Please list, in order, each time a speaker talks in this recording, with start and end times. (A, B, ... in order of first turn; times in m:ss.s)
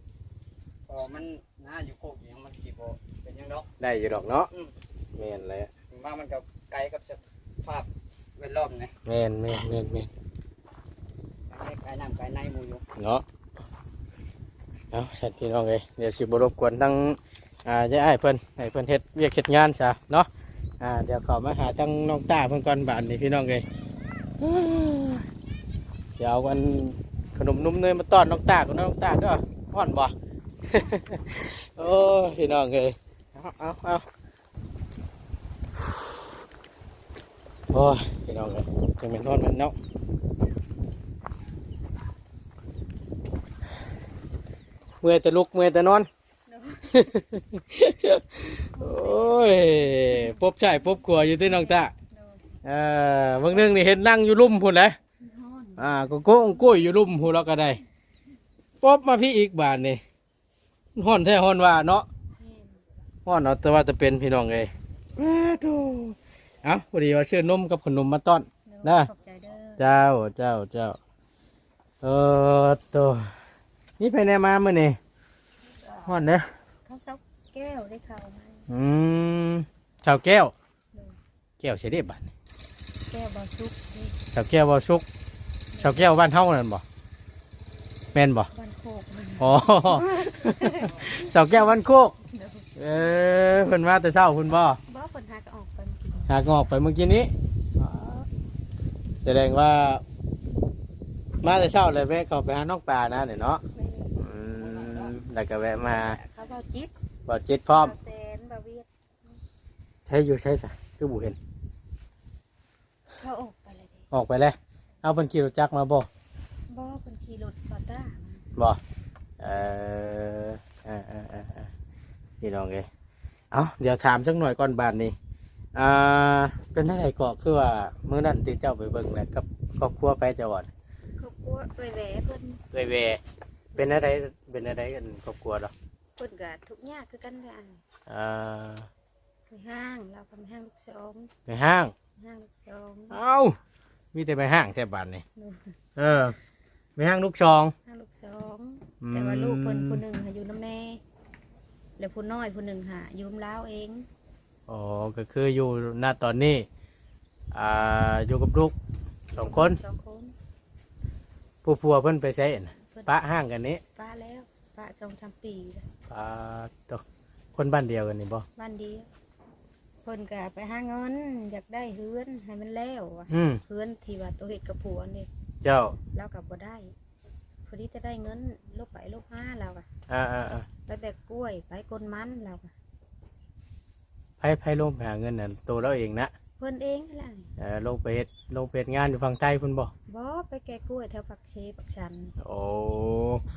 0:00.9-0:03.7 A
0:03.8-0:04.5 B
0:05.2-0:05.7 B
0:05.9-0:08.9 A
0:09.1-0:10.1 B
0:11.5-0:12.8 A
0:13.0-0:13.2 B
0:14.9-0:20.3 B
0:20.8-0:23.6 B
0:24.4-0:25.2 B
0:26.2-0:30.1 B
0:30.7-0:34.0 B
0:35.8-0:36.2 B
0:37.7-0:39.8 B
0:45.0-0:46.1 B
0:46.5-0:47.2 C
0:46.9-0:51.9 B
0:48.8-0:50.3 C
0:51.4-0:52.6 C
0:52.6-0:55.0 B
0:55.2-0:56.9 C
0:55.8-0:57.8 B
0:58.8-1:00.0 B
1:01.0-1:02.1 B
1:02.4-1:02.7 C
1:03.3-1:09.1 B
1:08.7-1:09.8 C
1:09.8-1:11.0 B
1:12.0-1:13.3 B
1:14.0-1:15.0 B
1:15.8-1:16.2 C
1:16.1-1:16.5 B
1:16.9-1:18.7 C
1:18.7-1:20.5 B
1:21.6-1:22.3 B
1:23.1-1:24.2 C
1:24.3-1:25.0 B
1:25.7-1:26.1 C
1:25.8-1:26.8 B
1:28.1-1:28.5 B
1:28.5-1:31.3 C
1:29.4-1:32.1 B
1:32.2-1:32.7 C
1:32.8-1:34.8 B
1:34.9-1:36.4 C
1:36.3-1:38.2 B
1:39.2-1:40.0 B
1:41.4-1:43.6 B
1:43.8-1:44.2 C
1:44.2-1:46.2 B
1:45.8-1:46.9 C
1:47.3-1:47.9 B
1:47.7-1:49.4 C
1:50.1-1:51.4 B
1:53.2-1:54.1 C
1:54.1-1:56.1 B
1:56.7-1:58.4 C
1:59.4-2:01.7 B
2:02.4-2:02.9 B
2:03.5-2:05.2 B
2:05.8-2:10.7 B
2:11.2-2:12.6 C
2:12.7-2:13.2 B
2:13.8-2:15.7 B
2:16.2-2:17.8 C
2:18.1-2:18.9 B
2:19.5-2:21.3 C
2:21.5-2:21.9 B
2:22.2-2:23.2 C
2:23.1-2:23.6 B
2:24.1-2:25.2 B
2:25.4-2:25.7 C
2:26.0-2:26.4 B
2:27.0-2:27.7 B
2:27.9-2:31.0 C
2:29.0-2:30.0 B
2:32.0-2:34.1 C
2:34.7-2:36.7 B
2:37.5-2:38.8 B
2:39.3-2:39.8 B
2:39.4-2:40.4 C
2:41.6-2:43.8 B
2:42.8-2:43.1 C
2:44.0-2:45.9 C
2:46.1-2:47.0 B
2:47.6-2:48.4 B
2:48.6-2:49.1 C
2:50.0-2:55.3 C
2:53.3-2:53.6 B
2:55.6-2:56.0 B
2:56.1-2:57.0 C
2:57.6-2:59.9 C
3:00.1-3:00.7 B
3:00.9-3:02.7 C
3:04.4-3:06.3 B
3:06.6-3:07.5 C
3:07.6-3:09.9 B
3:10.1-3:12.3 C
3:12.4-3:13.4 B